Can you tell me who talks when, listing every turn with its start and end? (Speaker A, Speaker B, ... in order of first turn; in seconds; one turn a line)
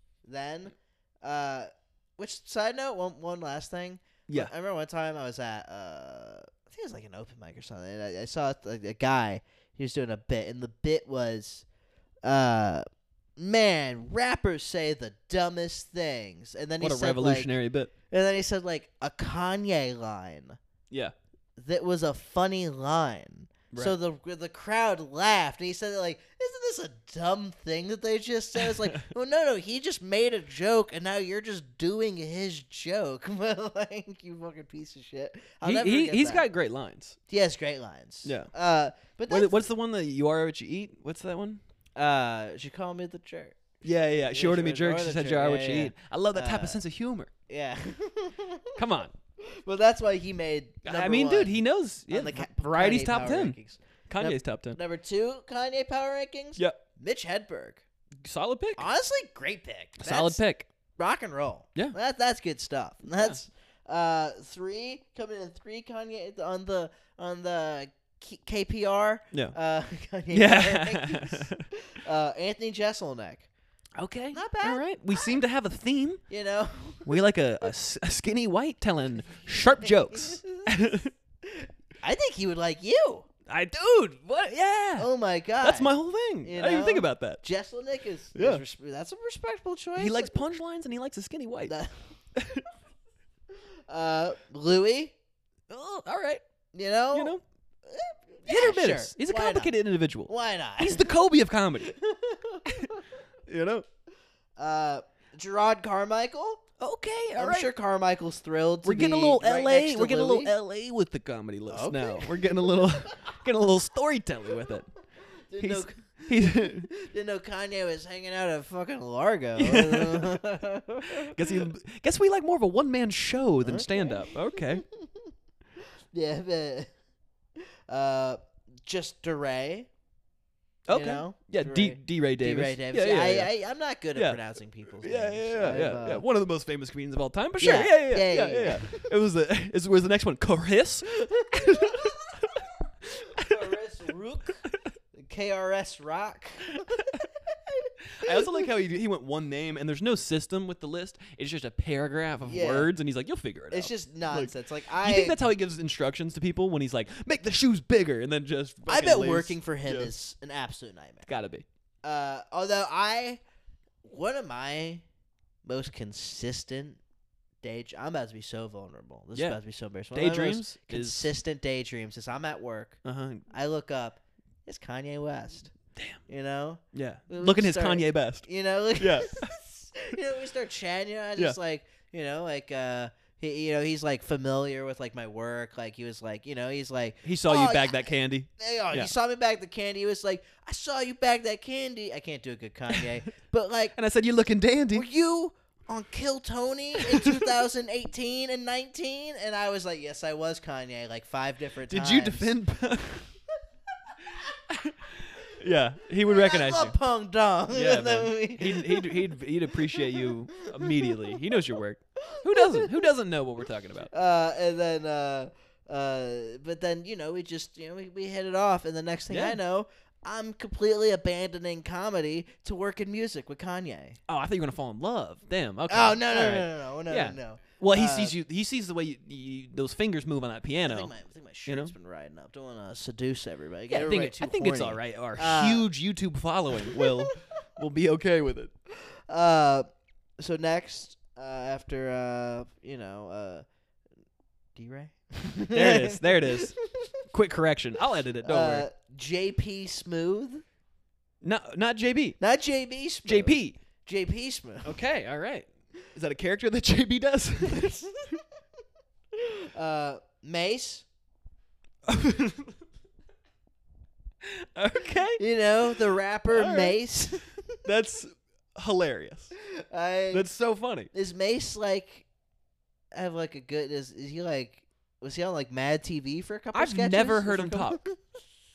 Speaker A: 0.2-11.6
Speaker A: 12.2-12.8
Speaker A: 13.4-17.5
Speaker B: 16.8-17.9
Speaker A: 18.1-20.6
Speaker A: 21.6-36.5
Speaker B: 28.6-29.0
Speaker B: 35.6-37.2
Speaker A: 37.3-39.7
Speaker B: 38.2-38.5
Speaker B: 39.3-41.6
Speaker A: 42.0-43.6
Speaker B: 43.8-47.3
Speaker A: 44.3-46.8
Speaker A: 47.5-48.8
Speaker B: 48.8-49.1
Speaker A: 49.4-51.6
Speaker B: 50.8-53.5
Speaker A: 52.1-57.8
Speaker B: 54.1-54.8
Speaker B: 58.2-58.9
Speaker A: 58.8-60.4
Speaker B: 60.0-60.7
Speaker A: 61.0-73.5
Speaker B: 70.3-71.7
Speaker B: 74.0-76.2
Speaker A: 74.3-75.3
Speaker A: 76.3-77.2
Speaker B: 77.0-81.1
Speaker A: 79.2-83.3
Speaker B: 83.5-85.1
Speaker A: 85.0-90.4
Speaker B: 85.6-87.4
Speaker B: 88.3-88.6
Speaker B: 90.0-91.7
Speaker A: 91.7-91.9
Speaker B: 92.3-92.6
Speaker A: 93.9-95.1
Speaker B: 95.7-96.4
Speaker A: 96.7-99.7
Speaker B: 97.1-97.4
Speaker B: 98.5-101.9
Speaker A: 100.3-101.1
Speaker A: 101.8-103.0
Speaker B: 103.5-103.8
Speaker A: 104.6-106.6
Speaker B: 106.8-107.7
Speaker A: 107.4-110.5
Speaker B: 108.8-114.9
Speaker A: 111.7-113.4
Speaker A: 115.4-121.7
Speaker B: 115.6-116.9
Speaker B: 119.6-120.4
Speaker B: 121.2-124.8
Speaker A: 123.6-125.3
Speaker A: 126.1-126.9
Speaker A: 127.6-129.9
Speaker B: 130.9-133.5
Speaker A: 130.9-136.2
Speaker B: 134.1-134.4
Speaker B: 135.0-143.8
Speaker A: 137.6-139.1
Speaker A: 141.1-144.6
Speaker B: 144.6-144.9
Speaker A: 145.1-148.6
Speaker B: 146.8-147.2
Speaker B: 148.1-160.1
Speaker A: 152.4-152.9
Speaker A: 153.7-155.4
Speaker A: 158.8-161.3
Speaker B: 161.3-161.7
Speaker A: 162.0-163.4
Speaker A: 164.0-165.0
Speaker A: 165.7-167.0
Speaker A: 167.6-173.0
Speaker B: 169.3-169.6
Speaker B: 170.1-171.3
Speaker B: 173.0-173.4
Speaker A: 173.5-175.7
Speaker B: 175.9-176.2
Speaker A: 176.3-193.9
Speaker B: 176.9-179.5
Speaker B: 187.2-189.1
Speaker B: 193.9-195.1
Speaker A: 194.9-202.5
Speaker B: 196.9-197.6
Speaker B: 201.9-203.3
Speaker A: 204.1-204.5
Speaker B: 204.7-206.9
Speaker A: 206.2-209.4
Speaker B: 207.7-214.1
Speaker A: 209.9-211.3
Speaker A: 212.3-212.9
Speaker A: 214.1-224.2
Speaker B: 219.3-219.6
Speaker B: 224.3-231.1
Speaker A: 225.9-228.4
Speaker A: 230.8-235.9
Speaker B: 231.7-231.9
Speaker B: 233.9-238.7
Speaker A: 236.8-237.4
Speaker A: 239.0-239.9
Speaker A: 240.4-243.6
Speaker A: 244.8-247.1
Speaker B: 245.7-246.7
Speaker B: 247.3-248.8
Speaker A: 248.4-250.6
Speaker B: 251.4-252.4
Speaker A: 252.4-255.0
Speaker B: 253.2-253.8
Speaker B: 254.8-258.0
Speaker A: 257.7-258.4
Speaker A: 259.3-261.0
Speaker B: 262.1-262.7
Speaker B: 264.4-267.0
Speaker A: 265.4-267.6
Speaker B: 267.8-269.5
Speaker A: 269.6-270.5
Speaker B: 270.3-271.1
Speaker A: 271.1-272.2
Speaker A: 273.1-278.1
Speaker B: 276.7-278.0